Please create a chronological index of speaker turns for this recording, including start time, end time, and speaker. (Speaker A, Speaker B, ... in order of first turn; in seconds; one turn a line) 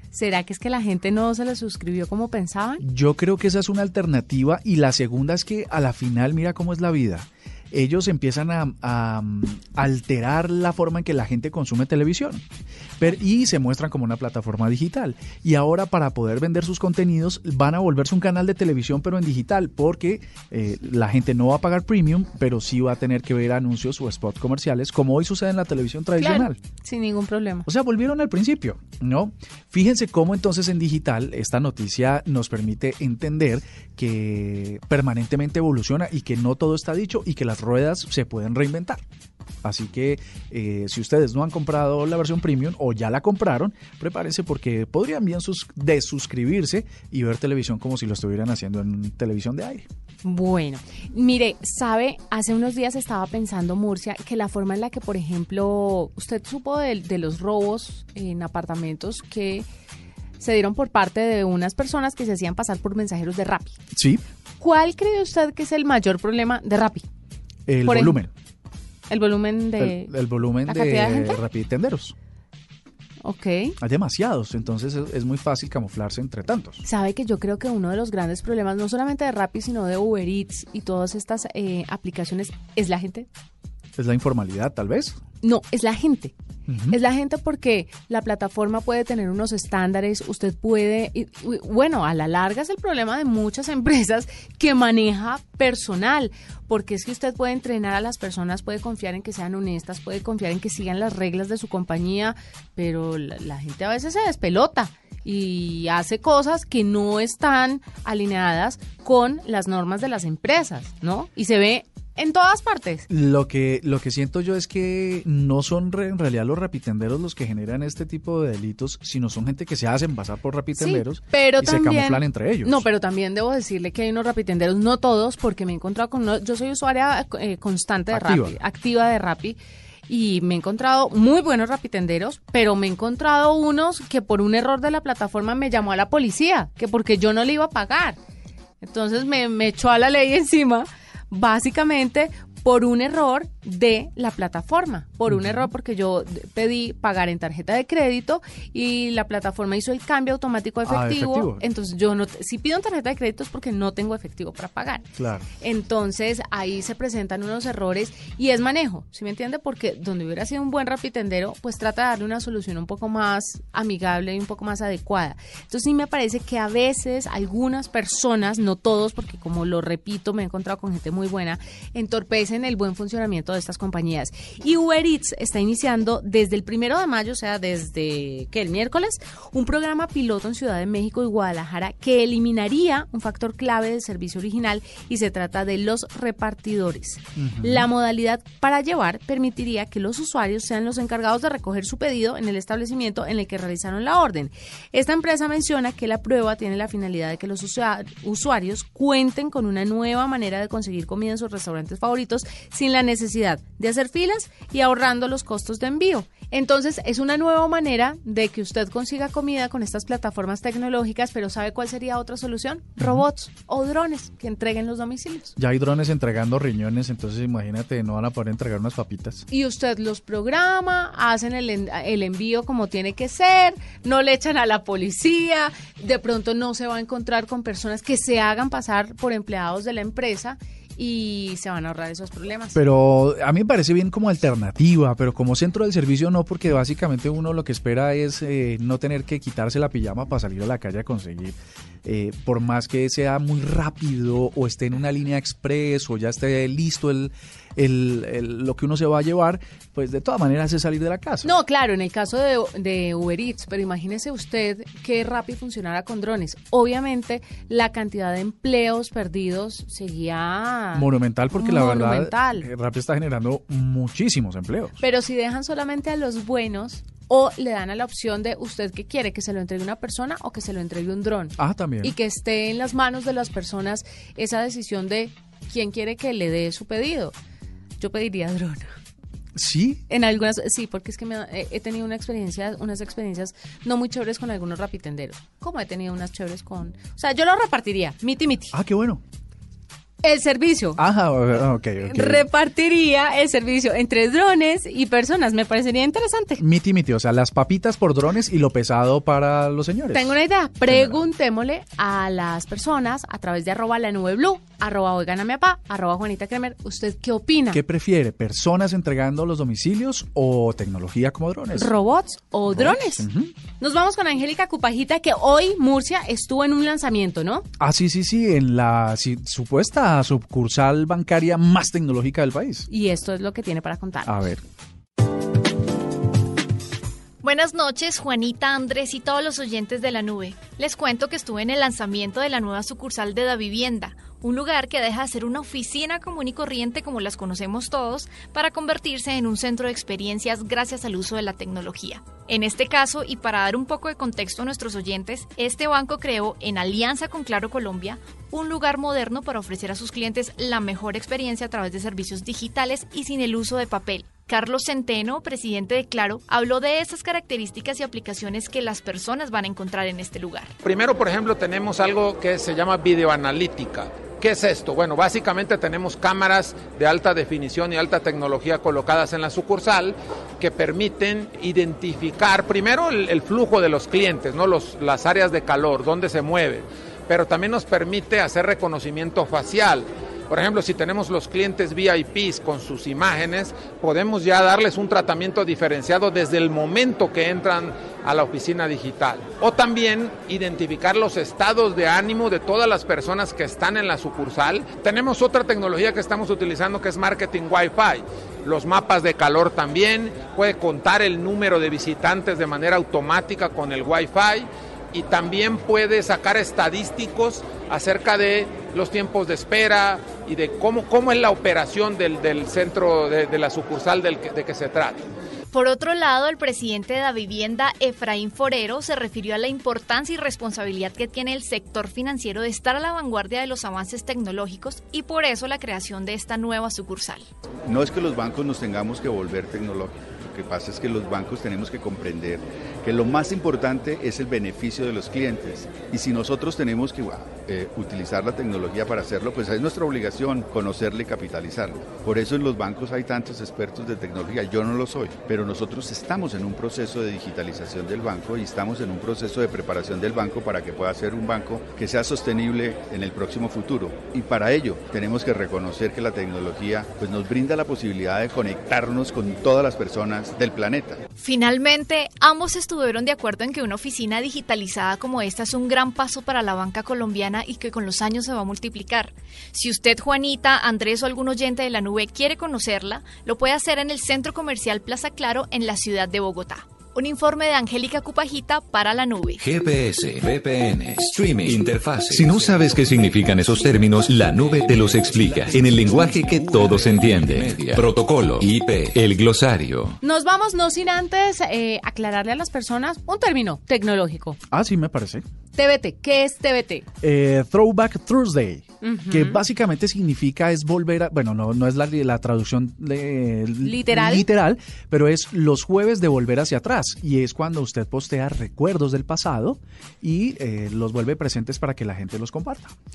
Speaker A: 0.1-2.8
Speaker B: 2.8-12.4
Speaker B: 13.0-26.6
Speaker A: 26.2-27.7
Speaker B: 27.7-39.0
Speaker B: 39.6-49.9
Speaker A: 50.2-59.7
Speaker A: 60.4-63.8
Speaker B: 63.9-64.2
Speaker A: 64.6-67.0
Speaker B: 67.7-68.3
Speaker A: 67.8-68.2
Speaker A: 69.1-70.1
Speaker B: 69.8-72.2
Speaker A: 70.7-71.4
Speaker A: 73.2-73.8
Speaker B: 73.8-76.8
Speaker A: 76.8-83.3
Speaker B: 84.0-85.2
Speaker A: 85.4-86.3
Speaker B: 86.7-87.0
Speaker A: 86.9-113.1
Speaker B: 113.1-122.9
Speaker A: 120.8-138.2
Speaker B: 128.1-128.6
Speaker A: 138.8-155.1
Speaker B: 145.3-145.7
Speaker B: 150.8-151.6
Speaker B: 155.2-155.5
Speaker A: 155.6-215.6
Speaker B: 187.4-187.9
Speaker B: 213.0-213.2
Speaker B: 215.6-219.4
Speaker A: 219.5-232.8
Speaker B: 232.8-251.5
Speaker A: 251.4-262.7
Speaker B: 260.9-265.0
Speaker A: 265.0-277.3
Speaker B: 271.6-272.1
Speaker A: 278.0-278.9
Speaker B: 279.6-280.0
Speaker A: 280.1-288.7
Speaker B: 288.7-289.2
Speaker A: 290.2-291.0
Speaker B: 291.0-292.5
Speaker A: 292.0-296.6
Speaker B: 296.6-300.4
Speaker A: 300.1-307.8
Speaker B: 300.9-301.3
Speaker B: 307.7-311.9
Speaker A: 311.8-313.3
Speaker B: 312.7-313.5
Speaker A: 313.8-317.7
Speaker B: 317.8-322.9
Speaker A: 322.9-324.4
Speaker B: 324.2-324.6
Speaker C: 327.4-360.7
Speaker D: 360.8-415.2
Speaker C: 415.7-427.5
Speaker E: 427.9-461.2
Speaker C: 461.4-479.6
Speaker F: 479.6-490.2
Speaker A: 490.2-494.6
Speaker B: 494.7-495.5
Speaker A: 495.8-497.1
Speaker B: 497.2-512.9
Speaker A: 499.0-499.6
Speaker A: 503.8-504.5